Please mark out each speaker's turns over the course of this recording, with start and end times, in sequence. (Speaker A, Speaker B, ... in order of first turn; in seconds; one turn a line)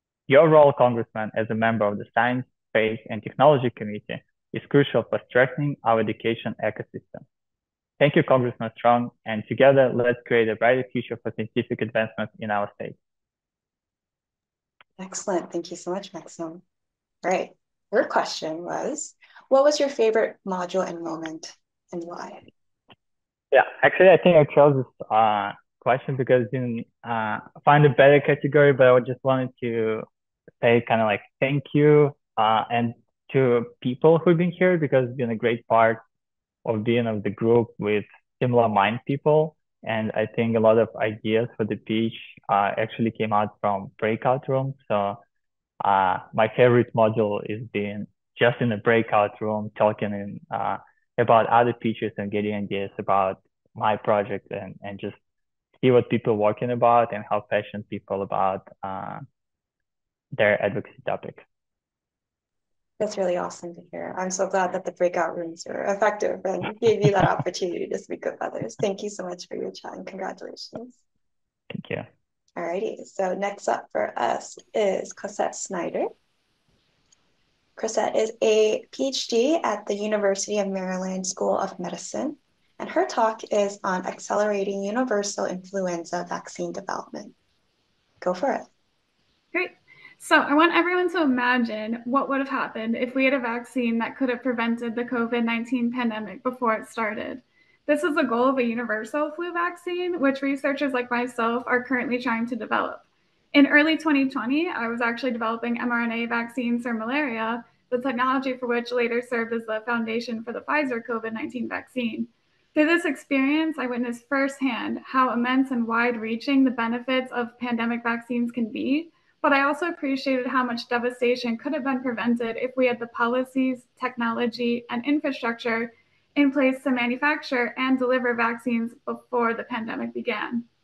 Speaker A: 0.3-7.2
Speaker A: 8.0-12.9
Speaker B: 15.0-16.6
Speaker B: 17.2-22.4
Speaker A: 23.5-30.0
Speaker A: 30.6-36.0
Speaker A: 36.6-45.2
Speaker A: 45.8-55.1
Speaker A: 55.8-59.2
Speaker A: 60.3-61.4
Speaker B: 63.0-71.0
Speaker A: 71.7-72.0
Speaker B: 72.5-76.1
Speaker B: 77.8-87.3
Speaker B: 88.2-88.7
Speaker C: 89.5-130.7